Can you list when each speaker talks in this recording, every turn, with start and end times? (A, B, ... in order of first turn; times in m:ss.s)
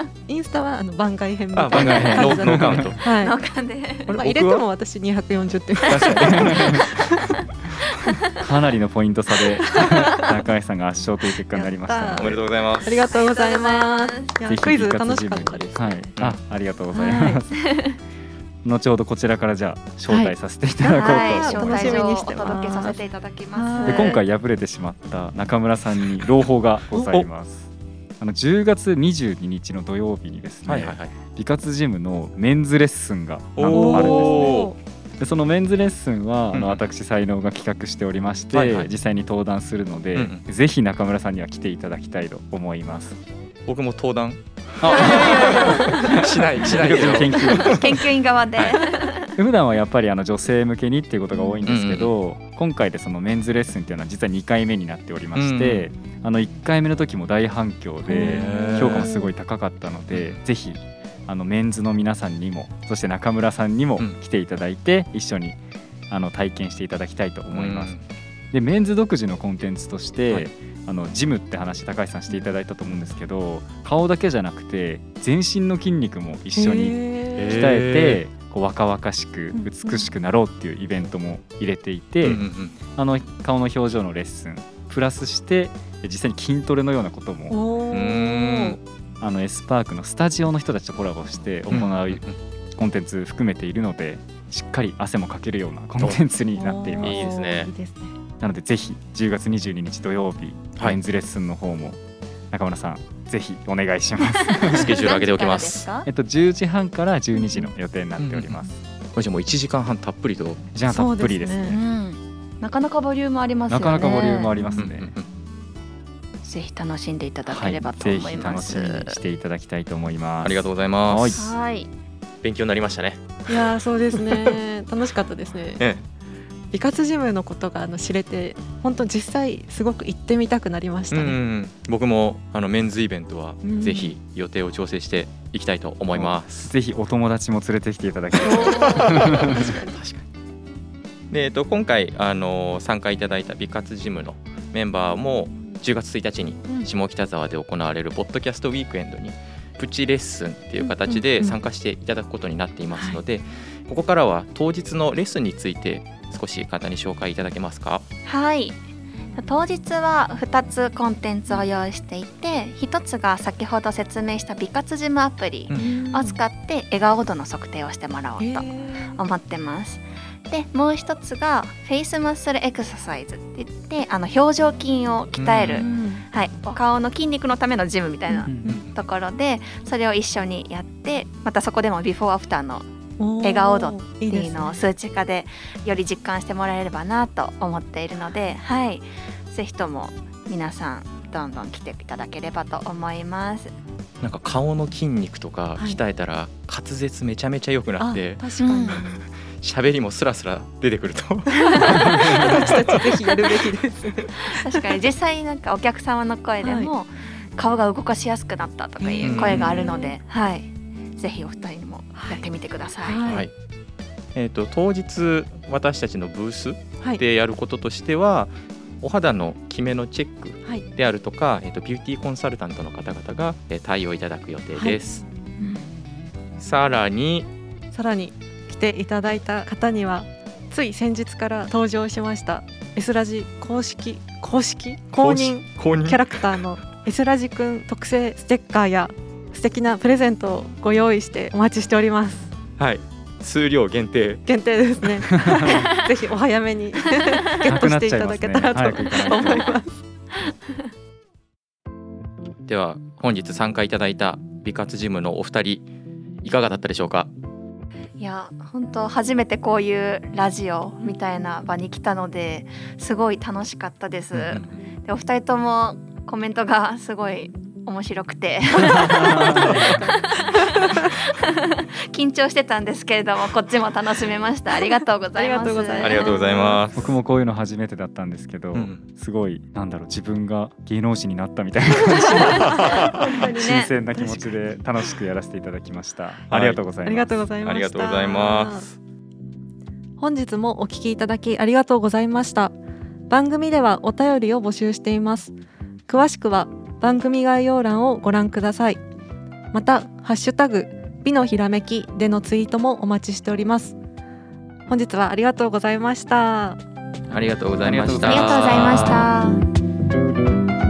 0:00.3-0:03.4 A
0:01.5-0:03.0 B
0:01.7-0:02.9 C
0:03.0-0:04.2 D
0:04.1-0:04.6 B
0:04.1-0:07.3 A
0:05.9-0:06.8 B
0:05.9-0:06.9 C
0:07.3-0:08.2 D
0:08.4-0:12.4 C
0:09.8-0:10.1 A
0:09.8-0:10.2 D
0:11.5-0:16.1 A
0:12.2-0:12.9 B
0:12.9-0:14.4 D
0:14.4-0:17.5 C
0:16.9-0:17.4 A
0:17.6-0:18.0 D
0:18.6-0:22.0 C
0:20.1-0:23.0 A
0:20.9-0:24.2 D
0:23.5-0:24.2 A
0:23.9-0:34.6 C
0:30.6-0:31.1 B
0:33.6-0:34.7 B
0:33.7-0:34.8 A
0:35.2-0:43.2 C
0:36.5-0:36.8 B
0:38.5-0:38.9 B
0:40.1-0:40.4 B
0:43.6-0:47.9 B
0:44.8-0:48.0 C
0:44.9-0:46.2 A
0:47.6-0:49.3 D
0:49.4-1:05.6 C
0:51.6-0:52.1 B
0:55.3-0:55.9 B
0:58.0-0:59.3 A
0:58.1-0:59.1 B
1:00.1-1:00.4 B
1:06.1-1:07.9 C
1:07.5-1:08.0 B
1:08.5-1:22.4 C
1:16.6-1:17.6 A
1:17.4-1:18.2 B
1:19.5-1:20.1 A
1:22.2-1:22.8 B
1:22.9-1:27.6 C
1:27.5-1:28.8 A
1:27.9-1:28.8 B
1:29.2-1:32.2 C
1:31.7-1:32.4 B
1:32.8-1:37.2 C
1:36.6-1:38.1 A
1:37.0-1:37.7 B
1:38.4-1:42.0 C
1:42.5-1:45.0 C
1:44.5-1:46.1 D
1:44.7-1:45.9 B
1:46.0-1:48.8 C
1:48.2-1:48.6 B
1:49.1-1:50.7 B
1:50.7-1:51.7 C
1:50.9-1:51.8 A
1:51.6-1:54.5 D
1:53.7-1:55.1 C
1:54.5-1:54.8 A
1:54.8-1:55.2 B
1:56.4-1:59.2 D
1:57.5-2:01.5 C
2:00.4-2:01.4 B
2:01.4-2:01.9 D
2:02.4-2:04.5 B
2:03.5-2:05.8 A
2:05.8-2:06.0 B
2:06.7-2:11.4 A
2:11.1-2:16.7 B
2:13.6-2:14.1 A
2:16.1-2:19.6 C
2:18.4-2:20.1 A
2:18.5-2:20.2 B
2:21.3-2:38.0 B
2:30.8-2:31.5 A
2:32.9-2:33.2 A
2:38.2-2:38.8 D
2:39.4-3:02.8 D
2:45.8-2:46.4 A
2:48.4-2:49.2 A
2:55.4-2:55.9 B
2:55.7-2:56.2 A
2:58.4-2:58.8 C
2:58.7-2:58.9 B
3:03.2-3:04.8 A
3:03.4-3:13.7 D
3:14.2-3:18.5 B
3:18.0-3:19.2 A
3:18.6-3:19.0 D
3:19.6-3:22.8 B
3:21.5-3:24.9 A
3:21.8-3:22.1 D
3:24.5-3:33.4 D
3:26.6-3:26.9 A
3:29.0-3:30.2 A
3:29.2-3:29.9 B
3:32.1-3:32.5 A
3:33.0-3:33.5 A
3:33.2-3:33.5 B
3:34.3-3:45.2 B
3:44.8-3:45.0 A
3:45.6-3:45.8 D
3:46.6-3:47.5 B
3:47.9-4:02.5 A
3:55.2-3:56.4 B
4:02.8-4:04.4 B
4:04.4-4:10.0 A
4:07.6-4:09.7 C
4:12.7-4:15.9 B
4:16.4-4:17.3 B
4:18.2-4:36.5 D
4:24.3-4:24.7 B
4:29.0-4:29.4 C
4:29.2-4:31.0 A
4:35.4-4:36.8 A
4:36.0-4:37.1 B
4:36.9-4:47.3 C
4:38.7-4:39.0 B
4:42.1-4:43.9 D
4:42.9-4:44.8 A
4:46.5-4:46.8 B
4:47.0-4:48.9 A
4:47.6-4:49.0 B
4:50.2-4:52.7 A
4:53.3-4:55.5 A
4:56.1-4:59.0 A
4:59.7-5:04.0 A
5:04.9-5:06.8 A
5:07.3-5:09.3 B
5:07.8-5:09.3 C
5:08.2-5:09.6 D